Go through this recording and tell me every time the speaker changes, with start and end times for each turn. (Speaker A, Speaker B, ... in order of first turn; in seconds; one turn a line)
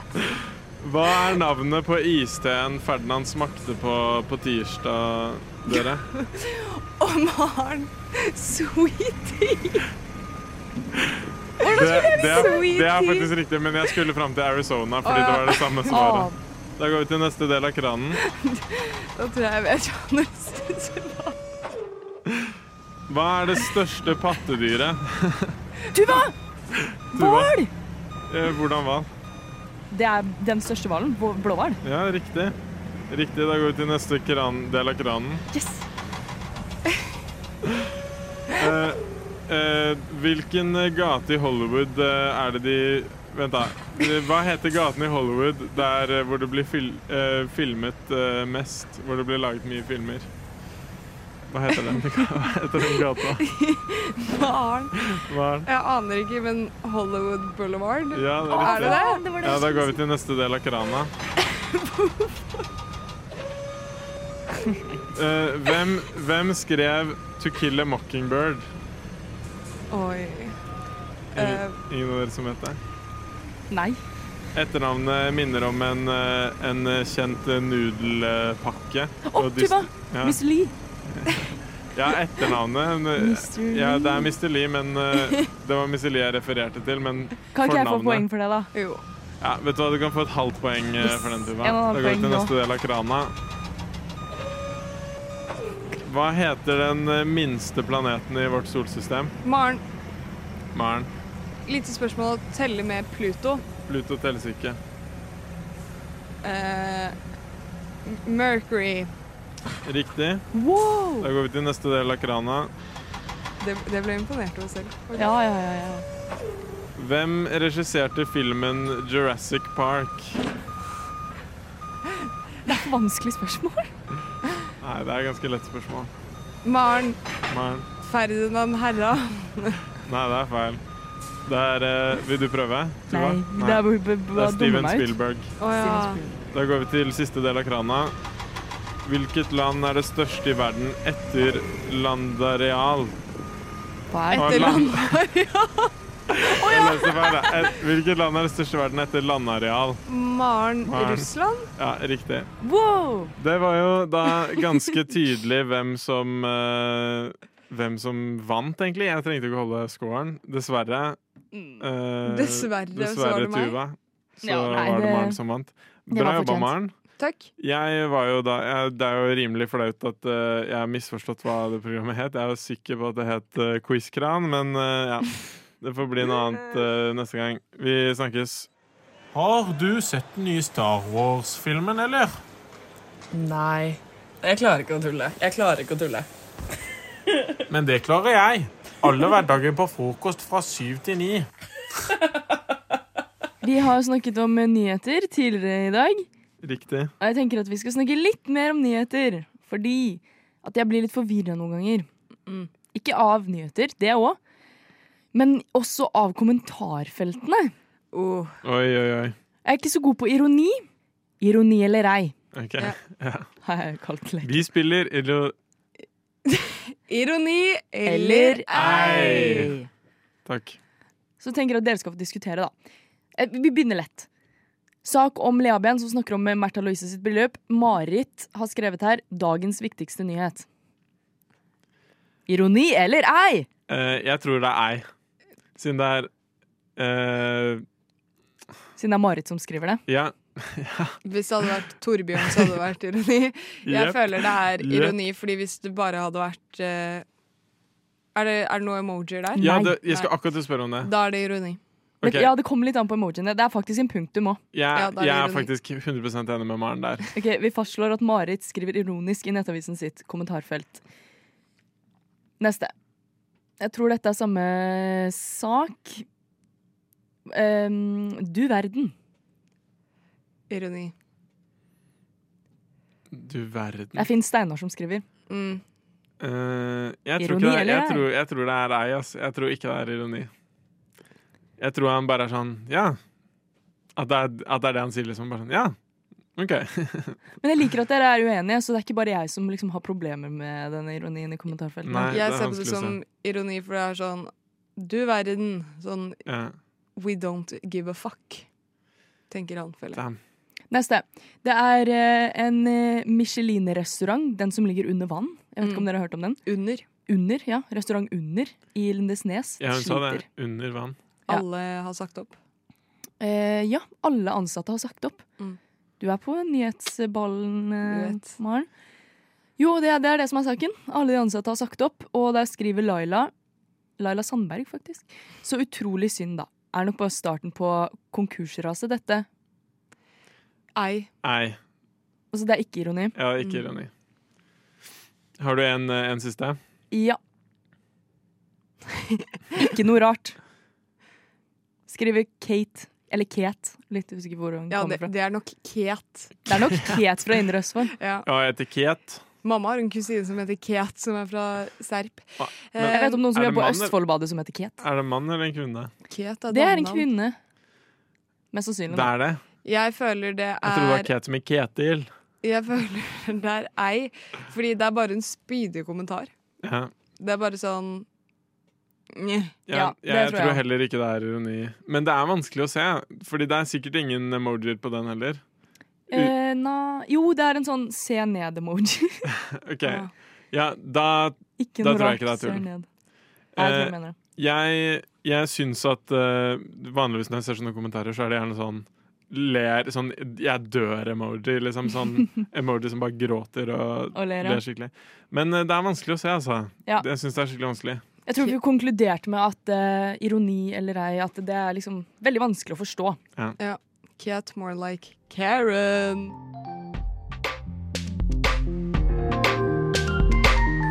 Speaker A: 0.8-6.0
Speaker B: 6.1-9.8
Speaker B: 11.6-13.3
Speaker A: 11.6-18.2
Speaker B: 15.0-16.3
Speaker B: 18.2-21.3
Speaker A: 23.1-25.6
Speaker C: 25.9-26.3
Speaker A: 27.1-27.5
Speaker C: 27.1-27.7
Speaker A: 28.3-29.1
Speaker C: 29.9-31.8
Speaker A: 31.8-32.5
Speaker A: 33.1-35.4
Speaker C: 35.5-35.8
Speaker A: 38.6-50.3
Speaker A: 51.5-53.4
Speaker B: 53.4-54.9
Speaker A: 55.1-55.6
Speaker B: 55.6-59.7
Speaker A: 58.1-61.1
Speaker C: 58.5-59.9
Speaker B: 61.5-62.3
Speaker A: 65.1-68.7
Speaker B: 69.9-70.5
Speaker A: 71.3-72.8
Speaker B: 71.4-71.8
Speaker C: 73.7-74.0
Speaker A: 74.5-80.4
Speaker C: 79.2-80.7
Speaker A: 81.1-88.3
Speaker C: 83.1-84.3
Speaker C: 87.5-88.7
Speaker B: 88.7-89.0
Speaker A: 89.4-93.3
Speaker C: 91.0-92.5
Speaker A: 96.0-99.3
Speaker B: 99.4-99.8
Speaker A: 100.7-101.1
Speaker B: 101.7-103.6
Speaker A: 103.9-104.8
Speaker B: 106.4-107.2
Speaker B: 108.0-109.1
Speaker A: 109.8-110.4
Speaker C: 110.5-111.3
Speaker A: 111.2-112.7
Speaker B: 113.6-115.3
Speaker C: 115.2-116.0
Speaker A: 117.0-120.4
Speaker C: 122.7-123.9
Speaker A: 124.8-126.1
Speaker B: 126.6-127.2
Speaker A: 127.5-127.9
Speaker B: 128.0-129.8
Speaker A: 130.0-130.8
Speaker A: 131.4-135.5
Speaker C: 133.1-136.4
Speaker B: 135.6-136.2
Speaker A: 136.5-138.1
Speaker A: 139.0-143.2
Speaker C: 144.1-145.0
Speaker B: 144.3-145.9
Speaker A: 144.4-145.1
Speaker A: 146.3-150.0
Speaker C: 146.6-147.2
Speaker B: 150.1-151.7
Speaker A: 150.9-152.5
Speaker C: 152.6-153.3
Speaker A: 153.4-161.2
Speaker B: 161.5-163.8
Speaker A: 161.8-166.9
Speaker C: 164.4-165.4
Speaker C: 166.1-166.8
Speaker B: 167.2-167.5
Speaker A: 167.6-175.3
Speaker A: 175.8-178.7
Speaker A: 179.3-182.3
Speaker A: 187.7-191.5
Speaker C: 193.6-196.3
Speaker A: 196.6-197.1
Speaker C: 197.2-202.1
Speaker C: 202.9-204.4
Speaker C: 205.3-207.7
Speaker B: 208.1-208.6
Speaker A: 208.6-209.3
Speaker C: 209.6-210.8
Speaker C: 211.4-212.3
Speaker A: 212.5-213.5
Speaker C: 213.6-214.7
Speaker A: 214.4-215.5
Speaker B: 216.6-219.7
Speaker C: 218.1-219.9
Speaker A: 218.7-219.7
Speaker A: 220.4-220.8
Speaker C: 221.4-222.7
Speaker C: 223.4-224.3
Speaker C: 225.0-230.7
Speaker C: 232.5-233.7
Speaker A: 233.9-235.1
Speaker A: 235.8-236.3
Speaker A: 237.0-237.8
Speaker C: 238.9-240.0
Speaker A: 240.1-241.7
Speaker B: 241.2-247.2
Speaker A: 242.4-242.7
Speaker A: 243.9-245.2
Speaker B: 248.3-250.3
Speaker C: 249.5-250.1
Speaker A: 249.6-251.1
Speaker B: 251.0-251.8
Speaker A: 252.2-252.5
Speaker C: 252.2-254.6
Speaker A: 254.7-257.2
Speaker B: 254.9-255.7
Speaker C: 257.4-261.0
Speaker C: 262.6-262.9
Speaker C: 263.8-266.2
Speaker C: 267.5-269.1
Speaker B: 270.7-271.1
Speaker A: 273.3-274.3
Speaker C: 274.1-275.2
Speaker B: 275.5-275.8
Speaker A: 276.4-280.5
Speaker C: 277.4-278.3
Speaker A: 281.8-283.2
Speaker A: 284.2-285.9
Speaker A: 286.6-287.4
Speaker C: 287.6-292.3
Speaker A: 292.0-293.2
Speaker B: 292.2-296.4
Speaker A: 296.4-296.8
Speaker B: 297.2-298.6
Speaker B: 299.5-300.2
Speaker A: 300.1-300.4
Speaker C: 300.9-306.6
Speaker B: 305.8-306.1
Speaker B: 306.6-307.0
Speaker C: 307.2-310.4
Speaker A: 309.8-311.1
Speaker B: 311.5-312.6
Speaker C: 313.4-315.5
Speaker C: 316.2-318.9
Speaker B: 318.1-318.5
Speaker C: 319.8-323.5
Speaker C: 324.2-329.5
Speaker B: 330.9-331.3
Speaker A: 331.4-331.8
Speaker C: 332.5-333.4
Speaker A: 333.3-334.1
Speaker B: 333.6-333.9
Speaker A: 335.6-336.8
Speaker C: 337.1-337.4
Speaker C: 339.7-340.6
Speaker C: 342.1-345.3
Speaker B: 344.9-346.6
Speaker C: 346.7-348.1
Speaker B: 348.1-348.4
Speaker A: 348.4-349.4
Speaker B: 349.6-353.4
Speaker A: 352.6-354.2
Speaker C: 353.1-355.0
Speaker A: 355.0-356.1
Speaker B: 356.3-357.3
Speaker C: 356.7-357.6
Speaker C: 358.7-359.3
Speaker A: 359.1-359.6
Speaker B: 359.8-361.3
Speaker A: 360.8-362.3
Speaker B: 362.6-366.5
Speaker A: 366.8-367.1
Speaker B: 367.4-368.2
Speaker B: 369.4-369.7
Speaker A: 369.9-375.6
Speaker C: 369.9-370.8
Speaker C: 376.3-379.4
Speaker A: 379.8-382.9
Speaker C: 380.0-380.3
Speaker C: 381.8-383.1
Speaker A: 383.8-398.2
Speaker C: 383.8-384.4
Speaker C: 394.3-394.8
Speaker C: 398.4-403.4
Speaker B: 403.8-406.5